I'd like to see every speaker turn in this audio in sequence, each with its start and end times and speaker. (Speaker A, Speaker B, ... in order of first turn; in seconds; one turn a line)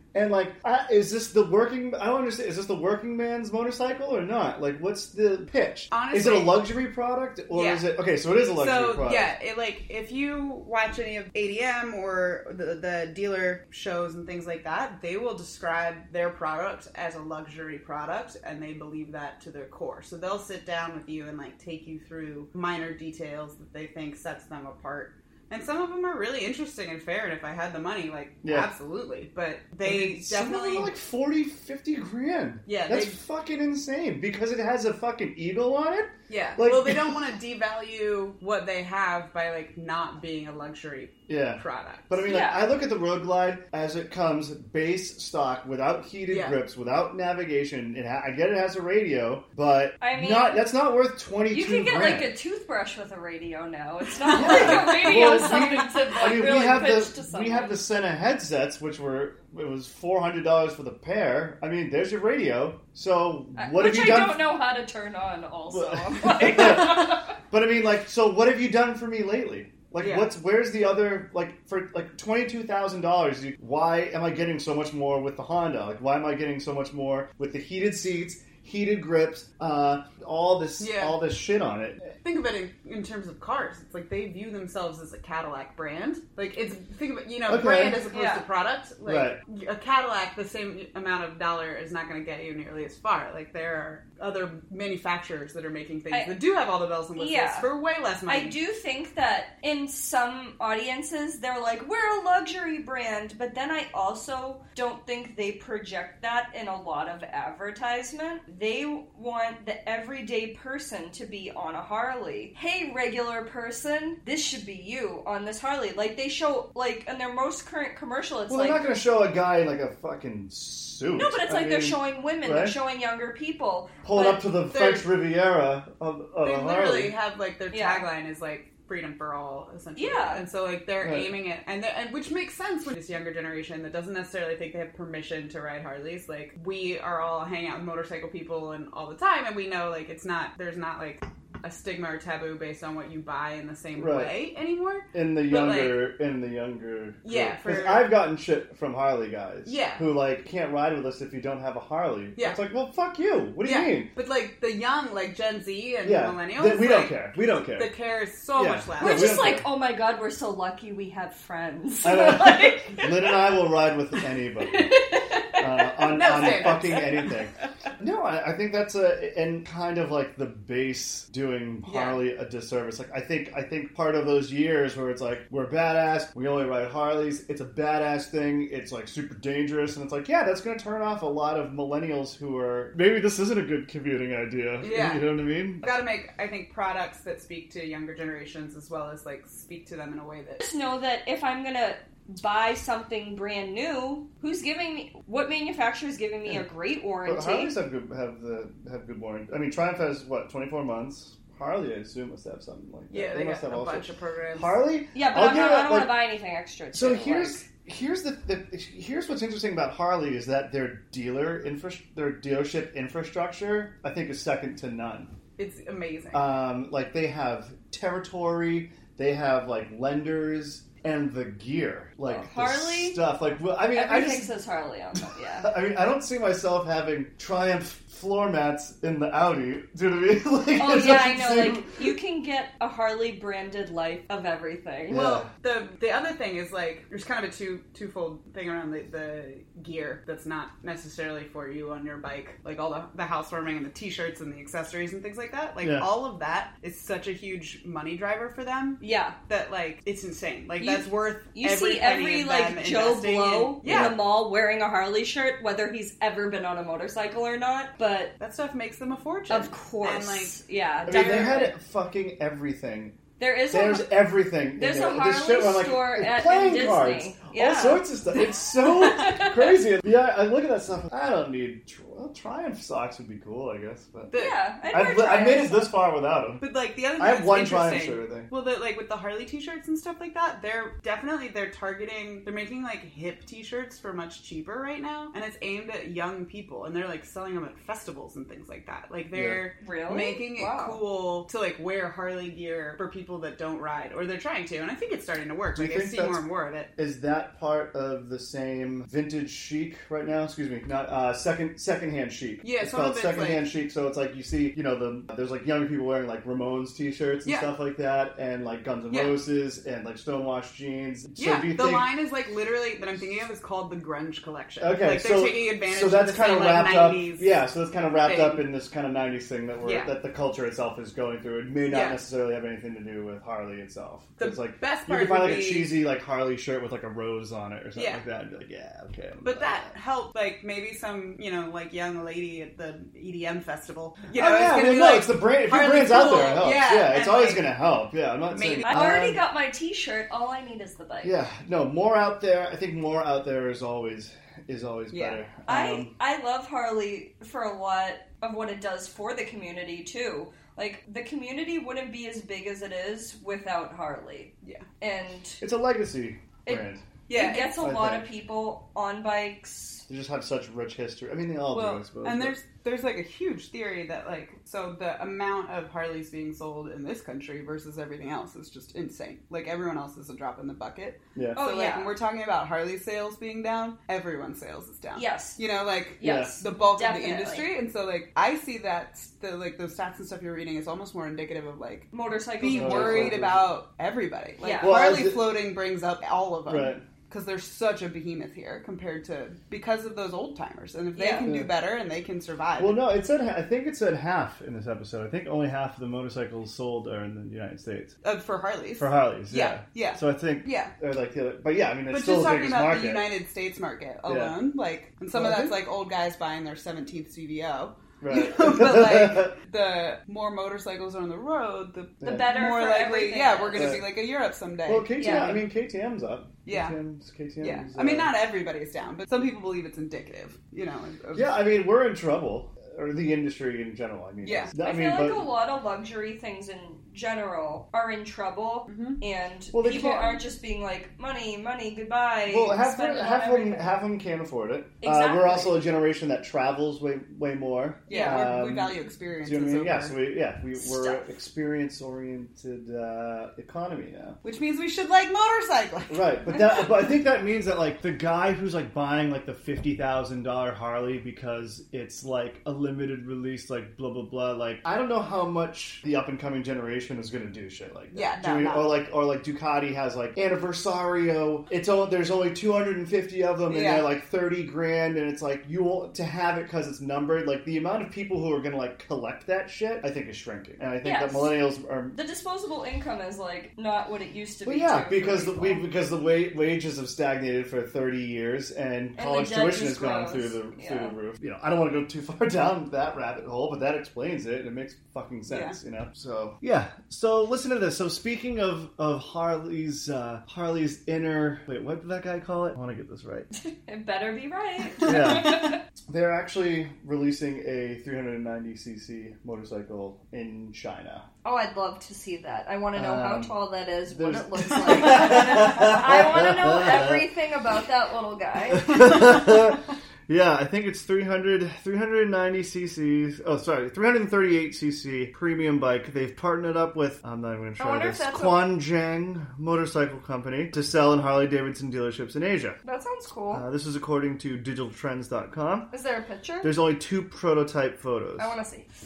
Speaker A: 0.1-9.3
Speaker B: 5.9-6.7
Speaker B: 7.5-7.9
Speaker B: 8.6-30.9
Speaker A: 29.8-37.2
Speaker B: 32.7-33.2
Speaker B: 36.3-42.1
Speaker A: 41.3-52.3
Speaker C: 42.2-42.6
Speaker B: 46.3-46.6
Speaker C: 50.0-50.6
Speaker C: 51.5-57.8
Speaker A: 54.3-64.5
Speaker B: 54.4-55.0
Speaker C: 63.6-67.4
Speaker A: 65.7-82.1
Speaker B: 70.0-70.3
Speaker B: 80.8-81.2
Speaker B: 82.2-98.6
Speaker A: 87.5-88.0
Speaker C: 88.1-88.5
Speaker A: 89.0-89.4
Speaker C: 97.2-97.7
Speaker C: 98.3-118.8
Speaker A: 118.5-122.8
Speaker C: 121.2-124.5
Speaker A: 124.0-127.2
Speaker B: 124.7-125.1
Speaker B: 126.4-146.1
Speaker C: 127.7-128.1
Speaker C: 130.0-130.4
Speaker A: 131.0-131.3
Speaker A: 144.0-144.3
Speaker A: 145.1-154.1
Speaker B: 147.2-148.2
Speaker B: 149.7-150.1
Speaker B: 153.6-159.5
Speaker A: 156.0-157.9
Speaker A: 158.6-159.7
Speaker C: 159.0-163.3
Speaker A: 162.0-185.9
Speaker C: 164.8-165.6
Speaker B: 166.0-167.4
Speaker C: 166.2-167.0
Speaker B: 171.8-172.2
Speaker B: 184.8-190.6
Speaker C: 190.6-197.8
Speaker A: 197.2-206.2
Speaker B: 203.1-204.8
Speaker C: 205.1-207.7
Speaker A: 206.9-215.3
Speaker B: 215.6-216.5
Speaker A: 216.3-224.5
Speaker C: 222.2-223.2
Speaker C: 223.9-225.7
Speaker A: 225.6-232.1
Speaker C: 230.8-235.4
Speaker A: 235.1-235.5
Speaker B: 235.1-254.2
Speaker A: 245.8-246.1
Speaker C: 249.0-249.4
Speaker C: 250.8-258.3
Speaker A: 253.9-254.2
Speaker B: 258.4-260.6
Speaker C: 259.5-261.8
Speaker A: 261.1-263.2
Speaker C: 263.4-264.2
Speaker A: 263.7-274.3
Speaker C: 264.8-268.1
Speaker C: 269.0-269.7
Speaker B: 274.3-274.6
Speaker C: 274.3-275.9
Speaker A: 274.9-276.6
Speaker B: 276.6-296.9
Speaker A: 277.2-278.5
Speaker A: 289.3-289.6
Speaker C: 289.8-291.0
Speaker A: 295.8-296.4
Speaker A: 297.0-312.1
Speaker B: 302.6-303.7
Speaker B: 309.1-309.4
Speaker B: 311.4-317.6
Speaker A: 314.8-329.9
Speaker B: 318.2-318.6
Speaker B: 319.8-320.1
Speaker B: 321.9-322.2
Speaker B: 324.4-326.0
Speaker B: 328.0-328.2
Speaker B: 329.4-337.8
Speaker A: 334.3-339.4
Speaker B: 338.5-339.2
Speaker C: 338.8-341.4
Speaker A: 341.2-346.1
Speaker B: 345.1-345.4
Speaker C: 345.7-355.6
Speaker A: 355.6-357.1
Speaker C: 356.7-360.1
Speaker B: 357.3-357.8
Speaker A: 357.8-358.3
Speaker A: 360.1-362.6
Speaker B: 361.7-393.0
Speaker A: 371.4-371.6
Speaker C: 371.6-372.1
Speaker C: 375.1-375.6
Speaker C: 376.2-377.7
Speaker A: 376.2-376.6
Speaker C: 382.1-383.5
Speaker A: 382.7-383.7
Speaker C: 384.6-385.0
Speaker A: 384.8-385.6
Speaker A: 386.7-387.0
Speaker C: 391.2-391.5
Speaker A: 391.4-391.7
Speaker A: 392.8-398.1
Speaker B: 398.2-400.9
Speaker A: 399.0-403.3
Speaker B: 402.1-415.6
Speaker A: 404.3-404.6
Speaker A: 405.3-405.8
Speaker A: 408.2-409.5
Speaker A: 412.2-412.5
Speaker C: 412.2-414.0
Speaker A: 413.7-414.2
Speaker A: 414.9-418.3
Speaker C: 415.2-415.6
Speaker B: 416.6-417.0
Speaker B: 417.6-421.6
Speaker A: 421.3-425.5
Speaker B: 424.4-424.7
Speaker C: 424.8-433.9
Speaker B: 428.9-429.2
Speaker A: 429.7-430.4
Speaker A: 432.5-444.4
Speaker C: 435.0-435.8
Speaker B: 438.1-440.2
Speaker C: 438.1-438.5
Speaker C: 440.8-441.3
Speaker B: 444.4-446.7
Speaker A: 446.1-472.2
Speaker B: 458.1-458.9
Speaker B: 463.7-464.1
Speaker C: 471.0-471.6
Speaker C: 472.1-475.9
Speaker A: 474.6-493.5
Speaker C: 479.2-481.1
Speaker B: 485.5-485.8
Speaker C: 493.6-495.8
Speaker A: 495.0-501.3
Speaker C: 501.4-509.1
Speaker A: 502.9-503.6
Speaker A: 504.1-507.3
Speaker A: 508.7-522.8
Speaker C: 517.8-518.7
Speaker C: 522.8-523.6
Speaker A: 523.5-525.9
Speaker C: 525.9-526.7
Speaker A: 526.6-528.5
Speaker C: 528.4-528.9